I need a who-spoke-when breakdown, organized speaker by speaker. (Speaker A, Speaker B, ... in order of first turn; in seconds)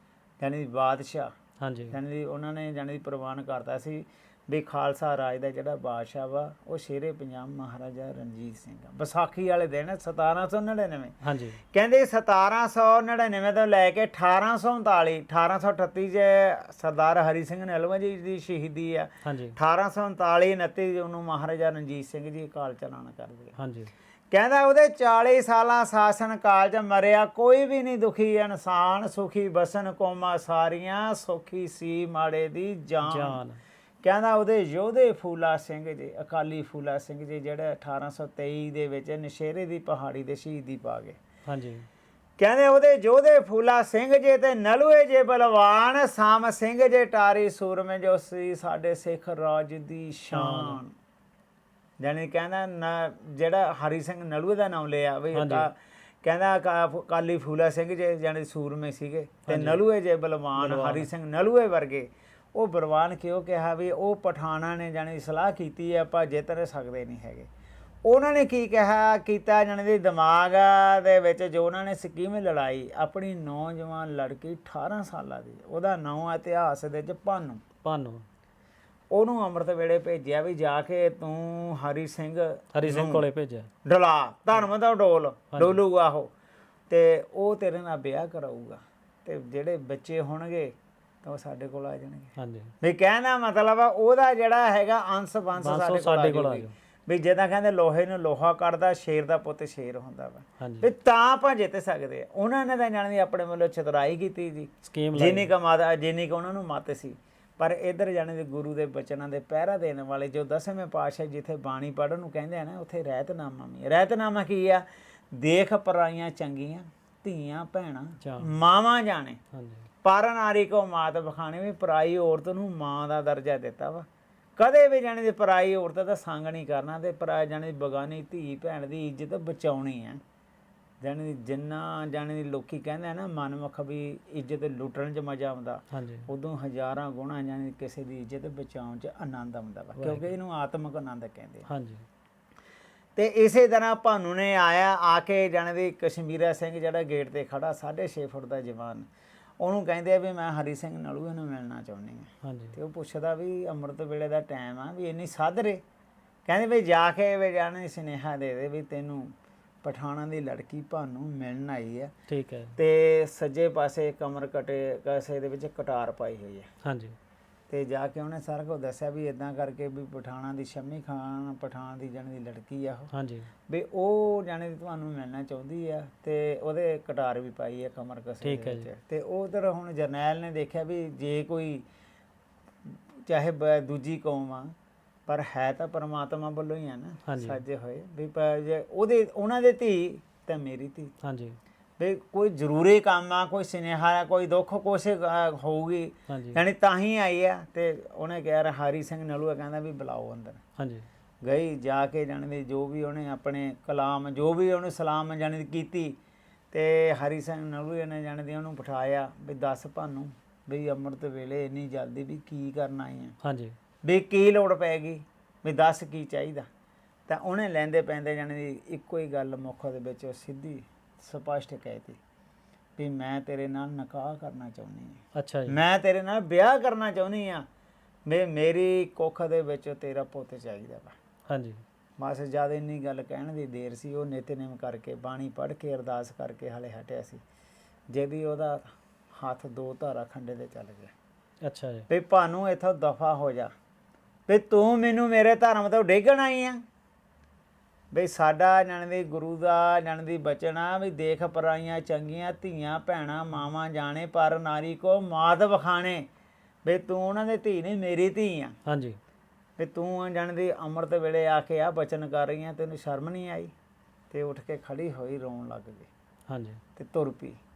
Speaker A: 0.4-1.3, 1.9-11.1, 11.7-23.6, 24.3-33.4, 34.0-41.2, 42.4-50.9, 52.0-67.5, 68.0-77.6, 79.1-83.2, 83.8-86.3, 86.9-119.4, 120.0-124.0, 124.6-130.2, 131.0-141.7, 143.2-149.1, 149.6-155.8, 156.4-159.3, 159.8-162.1, 162.8-166.7, 167.7-173.1, 173.7-181.8, 182.9-184.7, 185.3-191.1, 192.0-200.6, 201.4-206.2, 206.7-213.3, 214.0-216.6, 217.3-222.2, 223.0-227.6, 228.3-231.1, 232.2-237.4, 238.1-241.1, 242.1-243.7, 244.5-246.8, 248.1-256.2, 256.8-258.8, 259.8-263.7, 264.3-266.1, 266.9-267.6
Speaker B: 1.6-1.9, 11.2-11.6, 19.2-19.6, 23.6-23.9, 33.0-33.6, 41.5-41.9, 50.3-50.8, 55.3-55.7, 59.5-59.8, 60.5-61.1, 77.8-78.2, 82.7-83.7, 85.5-85.8, 92.4-92.7, 95.6-96.7, 100.6-100.9, 104.8-105.5, 118.2-118.5, 119.5-119.8, 135.9-136.3, 140.0-140.3, 141.7-142.0, 152.4-152.8, 162.3-162.8, 166.8-167.2, 173.1-173.5, 178.4-178.9, 187.2-187.6, 191.2-191.6, 196.3-196.6, 200.8-201.1, 213.4-213.7, 225.3-225.8, 231.5-231.8, 241.6-242.1, 258.8-259.2, 266.5-266.8